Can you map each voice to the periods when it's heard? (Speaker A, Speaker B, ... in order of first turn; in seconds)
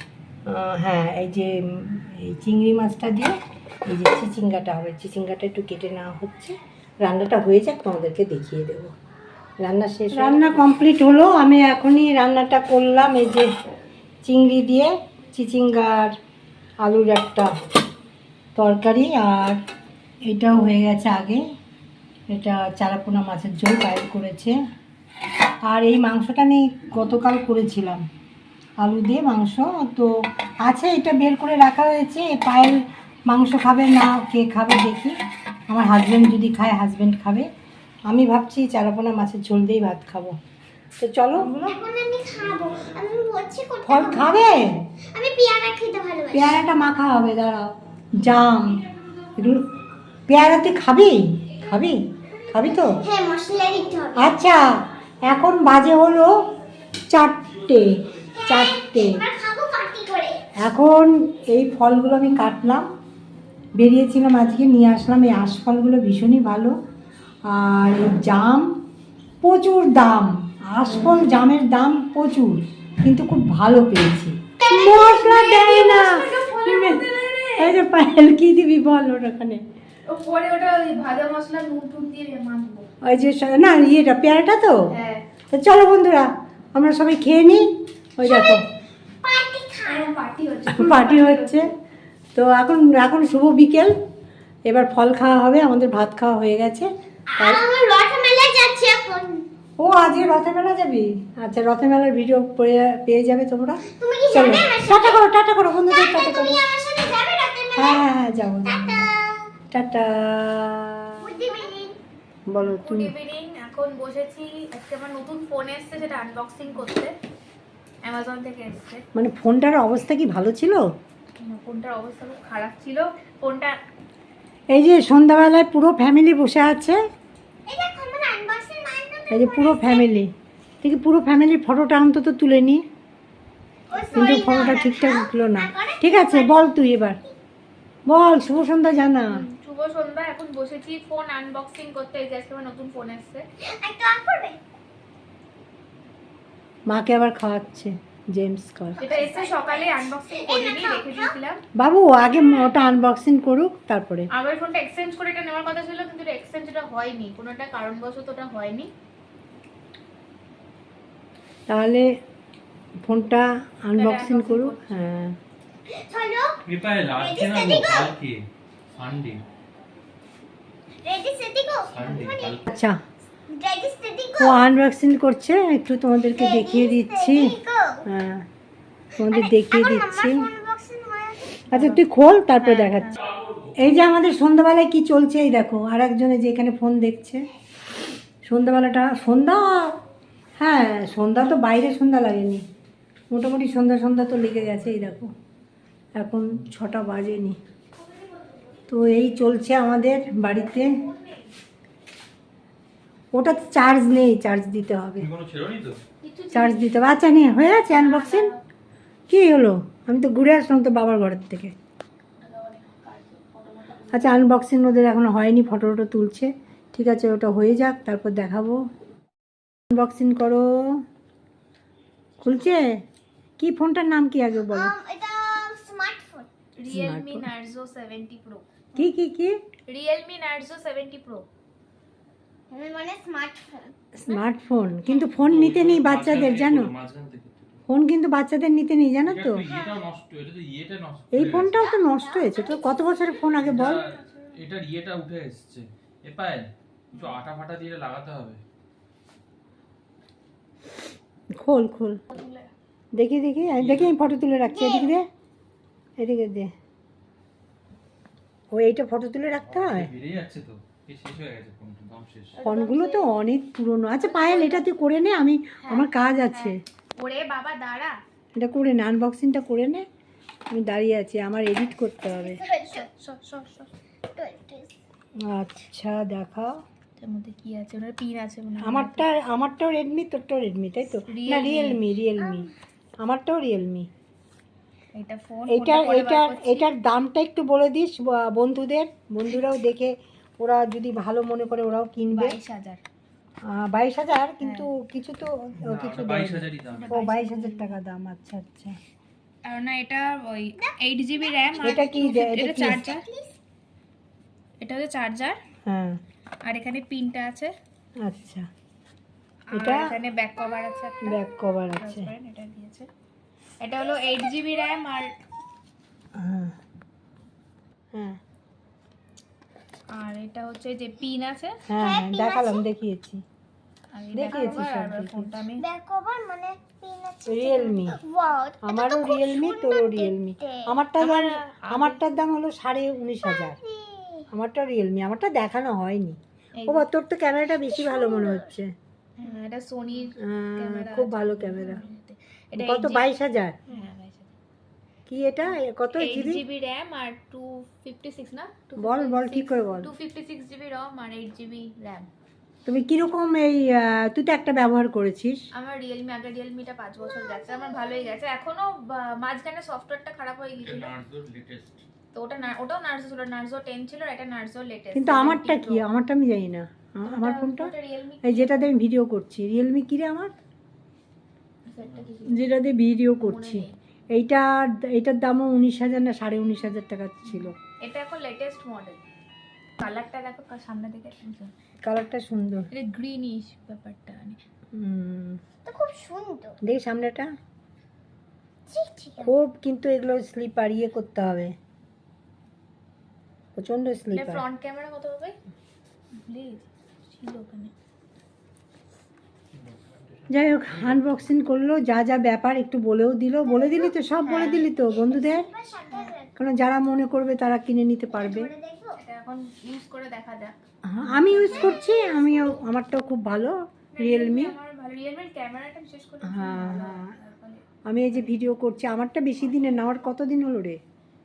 Speaker A: 0.5-3.3, 3.9-8.9, 9.6-13.5, 14.2-16.1, 16.8-17.5, 18.6-19.6, 20.3-21.4, 22.3-24.6, 25.6-28.0, 28.8-30.1, 30.6-35.1, 35.7-37.5, 38.1-40.4, 41.0-41.8, 43.8-44.9, 46.3-48.9, 49.4-49.7, 50.3-53.0, 54.1-56.3, 57.1-59.2, 60.6-62.9, 63.8-66.8, 67.5-68.7, 69.4-79.6, 83.0-84.8, 85.5-87.7, 88.2-88.6, 90.7-91.7, 92.3-93.9, 94.7-96.9, 97.4-97.7, 99.8-106.6, 107.8-109.1, 109.7-111.5, 112.5-113.1, 119.2-120.9, 124.7-127.0, 129.3-130.3, 130.8-132.8, 134.2-137.2, 138.1-139.4, 146.9-149.0, 151.8-154.3, 161.7-162.1, 163.1-165.3, 172.7-173.0, 174.4-178.4, 179.2-180.5, 181.7-183.2, 183.8-187.4, 188.5-190.0, 190.6-192.6, 193.3-195.3, 196.2-197.6, 198.9-200.9, 203.3-205.3, 206.5-208.5, 209.3-211.7, 214.1-218.8, 219.9-220.7, 222.4-223.0, 223.6-224.9, 226.9-227.5, 228.9-229.6, 234.2-236.9, 237.9-239.6, 241.3-244.1, 251.6-252.2, 253.1-255.2, 256.2-256.7, 258.7-260.1, 262.6-266.8, 268.6-270.1, 270.7-272.6, 275.4-276.7, 278.8-282.7, 283.2-284.1, 285.7-292.6, 293.7-299.0, 301.8-303.0, 305.9-306.2, 308.2-308.7, 309.7-310.1, 311.2-312.3, 316.4-316.7, 321.9-323.4, 324.3-325.6, 327.5-328.2, 328.8-333.8, 334.5-338.9, 340.4-342.0, 342.8-343.8, 345.3-346.6, 349.0-350.1, 352.9-355.6, 365.1-367.9, 368.4-370.5, 372.5-377.8, 382.0-382.9, 384.9-385.6, 386.8-387.5, 389.4-391.7, 393.8-394.6, 400.5-405.7, 406.6-408.7, 411.1-414.8, 416.4-417.3, 418.1-421.0
Speaker B: 41.4-46.6, 52.9-54.3, 58.3-60.5, 74.6-75.7, 88.2-88.6, 89.2-90.1, 97.3-99.5, 103.9-105.2, 105.9-108.1, 108.7-109.5, 111.2-112.0, 127.7-130.1, 133.9-136.7, 143.6-144.6, 149.0-151.3, 165.9-166.6, 167.1-168.1, 171.0-172.7, 173.5-174.6, 176.3-178.0, 179.2-181.6, 224.6-226.5, 232.7-233.9, 239.6-240.0, 241.8-243.4, 254.7-255.2, 272.3-273.1, 274.3-274.9, 282.4-282.7, 300.8-303.6, 321.9-322.9, 325.8-330.9, 333.4-334.5, 337.7-338.8, 357.6-358.2, 385.9-386.8, 388.9-389.5, 403.6-406.5, 408.3-409.2, 411.7-412.8
Speaker C: 52.3-53.2, 75.2-77.8, 80.1-82.9, 84.9-85.2, 89.8-91.7, 112.6-117.1, 118.0-119.0, 121.4-123.8, 133.9-134.5, 139.3-143.4, 149.0-151.6, 154.3-158.9, 164.0-165.0, 181.7-182.0, 182.6-183.2, 200.8-201.5, 206.2-207.1, 207.7-208.6, 212.4-214.3, 226.8-229.1, 229.9-231.5, 243.8-244.6, 247.1-247.4, 252.3-252.7, 262.5-263.3, 264.2-264.9, 265.8-268.2, 272.9-273.9, 277.2-279.3, 281.3-282.0, 285.1-286.9, 292.3-293.0, 294.6-294.9, 296.9-297.9, 299.6-303.2, 304.8-305.6, 306.6-307.7, 309.7-311.4, 312.0-313.1, 313.8-315.3, 320.1-321.8, 324.1-325.8, 331.2-332.2, 336.8-337.1, 339.4-343.3, 343.9-344.5, 346.1-352.3, 355.7-361.1, 362.3-366.1, 367.3-368.9, 371.9-372.6, 373.4-373.9, 377.5-379.2, 380.0-381.7, 382.9-384.6, 394.3-395.6, 396.4-397.9, 404.5-404.8, 409.2-412.0, 414.2-417.8
Speaker D: 166.7-169.4, 171.9-172.6, 183.3-183.7, 205.2-206.0, 235.4-237.8, 239.2-241.8, 243.6-248.6, 253.7-254.3, 259.6-262.6, 295.8-297.1, 360.8-362.0, 399.8-401.5